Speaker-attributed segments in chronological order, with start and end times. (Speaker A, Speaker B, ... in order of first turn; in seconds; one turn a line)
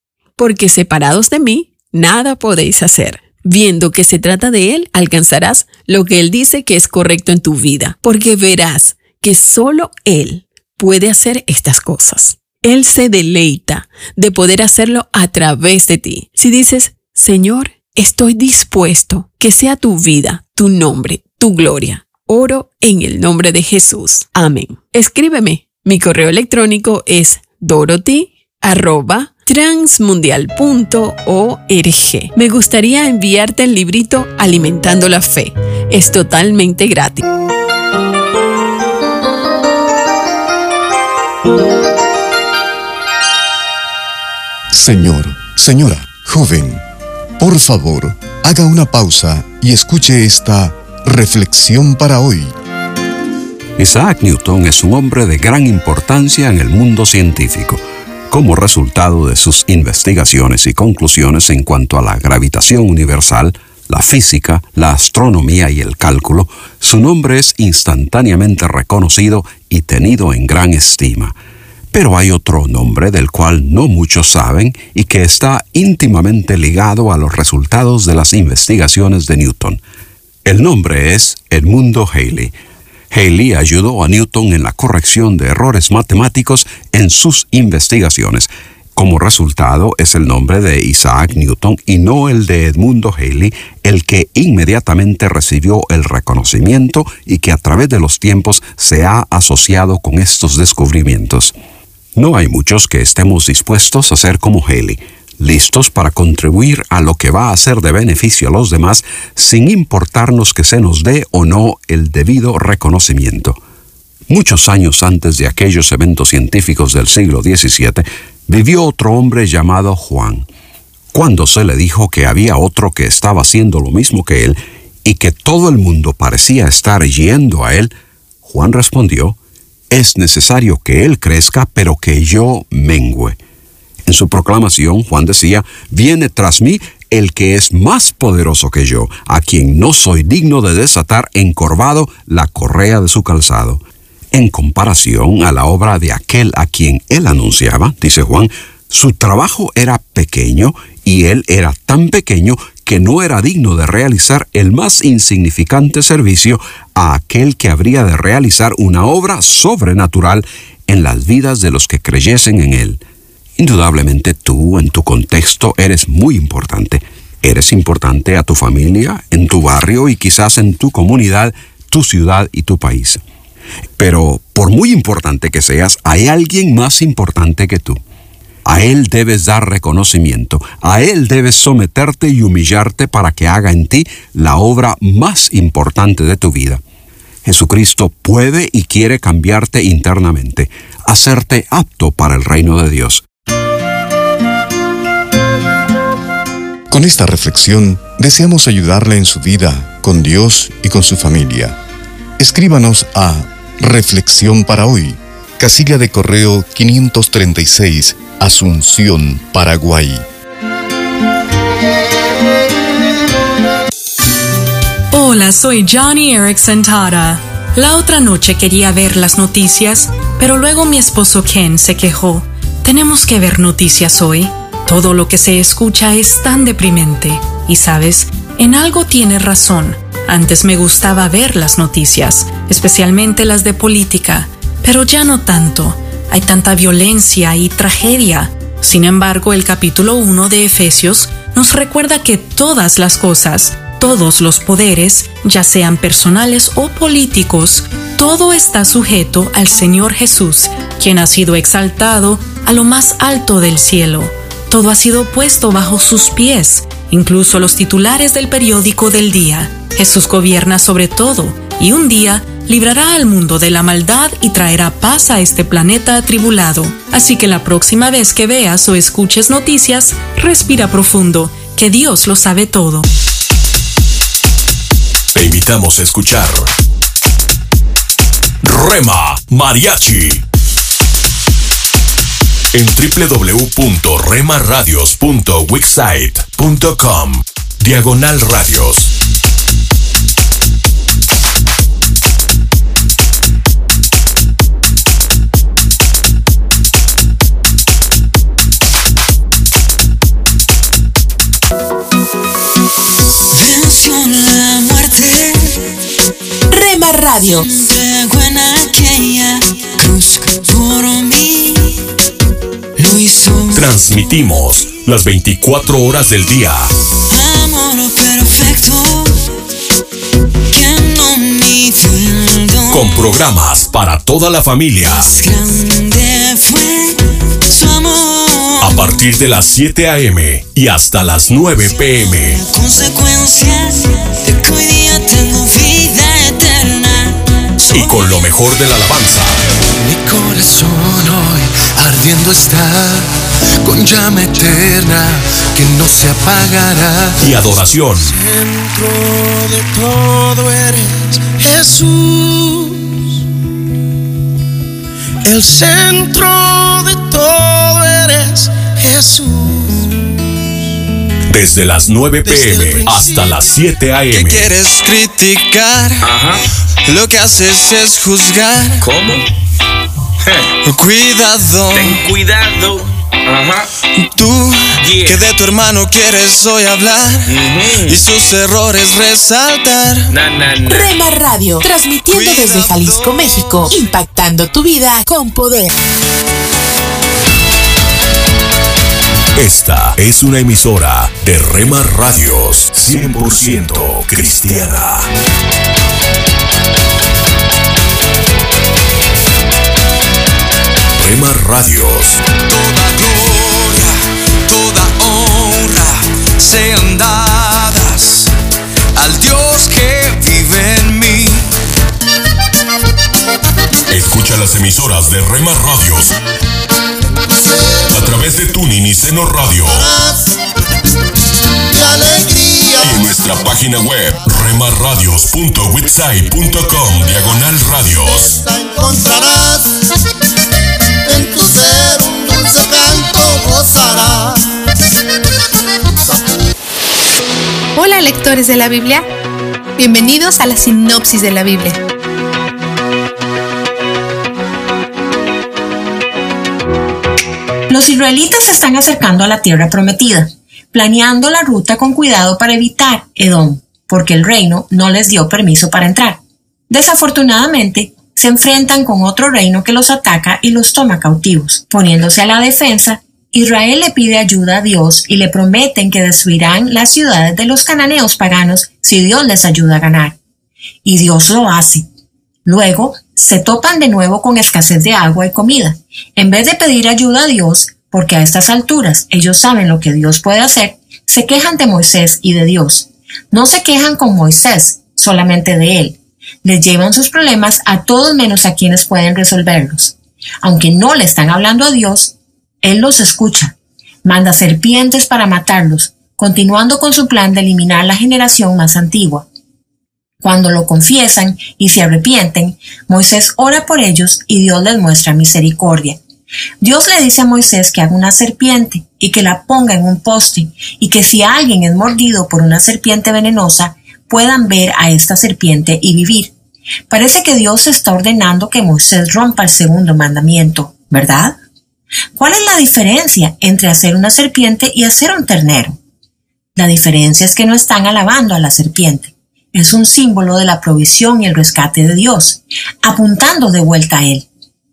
Speaker A: 0.4-37.2
Speaker B: 44.7-46.8
Speaker B: 47.4-52.5
Speaker C: 53.8-71.4
Speaker C: 71.9-79.8
Speaker C: 80.5-82.5
Speaker C: 83.1-101.5
Speaker C: 102.2-113.6
Speaker C: 114.3-120.5
Speaker C: 121.1-129.4
Speaker C: 129.9-133.4
Speaker C: 134.1-143.8
Speaker C: 144.3-163.0
Speaker C: 163.6-173.2
Speaker C: 174.0-178.0
Speaker C: 178.7-186.8
Speaker C: 187.4-193.2
Speaker B: 196.9-201.8
Speaker B: 202.4-210.2
Speaker D: 215.1-273.1
Speaker E: 275.4-276.7
Speaker E: 278.6-280.4
Speaker E: 282.7-289.1
Speaker F: 303.8-304.7
Speaker G: 306.7-307.7
Speaker E: 313.7-316.9
Speaker F: 317.6-317.9
Speaker F: 320.8-322.1
Speaker E: 322.9-325.4
Speaker E: 328.8-332.6
Speaker E: 337.9-339.6
Speaker H: 339.9-343.3
Speaker H: 343.8-353.2
Speaker E: 347.4-348.4
Speaker H: 355.4-360.1
Speaker E: 361.5-364.7
Speaker H: 362.4-363.6
Speaker H: 364.3-366.3
Speaker I: 366.2-366.6
Speaker H: 367.1-369.0
Speaker I: 369.0-369.4
Speaker H: 370.8-372.2
Speaker I: 371.9-373.9
Speaker H: 374.2-380.3
Speaker I: 375.0-375.4
Speaker I: 377.5-378.2
Speaker I: 380.3-381.1
Speaker G: 380.9-385.9
Speaker H: 382.3-383.8
Speaker E: 389.6-395.3
Speaker E: 401.2-402.4
Speaker H: 402.7-404.1
Speaker H: 404.7-408.5
Speaker H: 409.1-411.7
Speaker E: 414.1-416.4
Speaker E: 418.1-420.1
Speaker J: 419.9-420.5
Speaker J: 421.9-423.3
Speaker E: 423.0-428.6
Speaker J: 428.5-429.9
Speaker J: 431.3-434.6
Speaker K: 437.9-439.3
Speaker K: 440.0-442.0
Speaker L: 447.9-470.4
Speaker L: 471.0-472.1
Speaker L: 472.6-499.5
Speaker L: 500.4-506.2
Speaker L: 506.8-516.5
Speaker L: 517.1-521.6
Speaker L: 522.4-526.0
Speaker L: 526.8-534.5